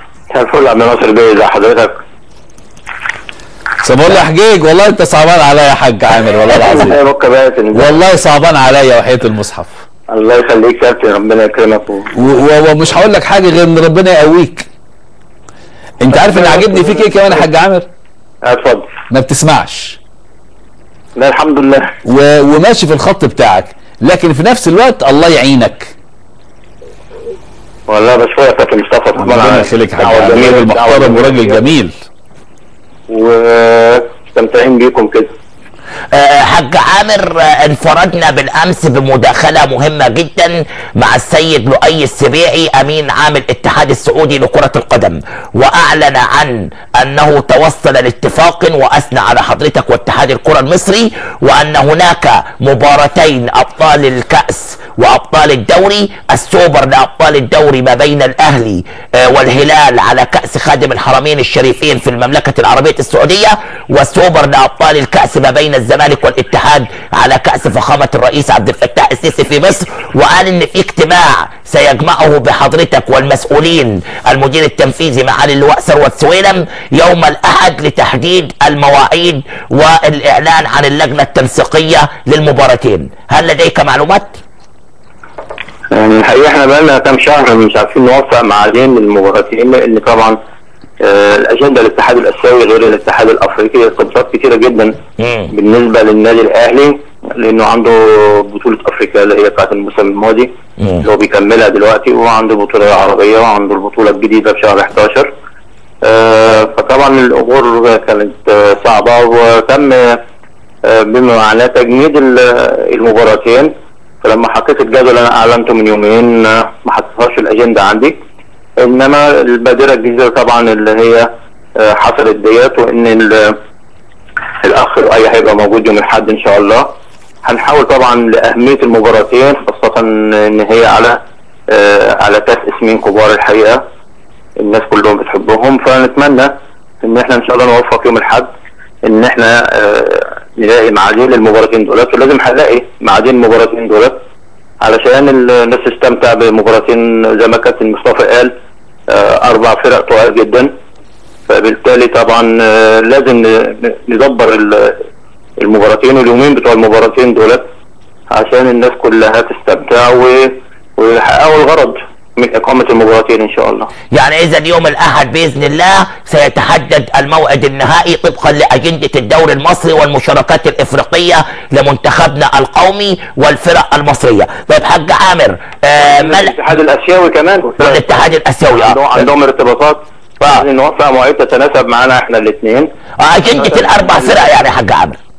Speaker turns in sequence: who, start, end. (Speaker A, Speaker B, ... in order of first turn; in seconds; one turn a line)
Speaker A: 0.3-1.9
Speaker B: 3.8-7.0
Speaker A: 6.5-7.9
Speaker B: 7.7-9.8
Speaker A: 10.1-12.1
Speaker B: 12.1-14.7
Speaker B: 16.0-17.9
Speaker A: 16.1-17.4
Speaker A: 18.4-18.9
Speaker B: 19.1-20.0
Speaker A: 21.1-21.9
Speaker B: 22.0-25.9
Speaker A: 27.9-31.7
Speaker B: 29.2-31.9
Speaker A: 33.1-35.3
Speaker C: 36.1-84.4
Speaker A: 85.9-90.4
Speaker A: 91.0-95.0
Speaker C: 95.2-95.5
Speaker A: 95.5-105.3
Speaker C: 100.8-101.0
Speaker A: 106.0-110.2
Speaker A: 110.8-113.7
Speaker A: 114.2-118.2
Speaker A: 118.8-123.6
Speaker A: 124.6-126.9
Speaker A: 127.4-133.8
Speaker A: 134.6-138.5
Speaker A: 139.0-144.2
Speaker A: 144.8-148.5
Speaker A: 149.1-150.7
Speaker A: 151.5-155.0
Speaker A: 155.6-157.7
Speaker A: 158.3-163.9
Speaker C: 164.1-176.5
Speaker A: 176.0-182.9
Speaker C: 177.8-179.2
Speaker C: 183.2-185.2
Speaker A: 183.5-184.5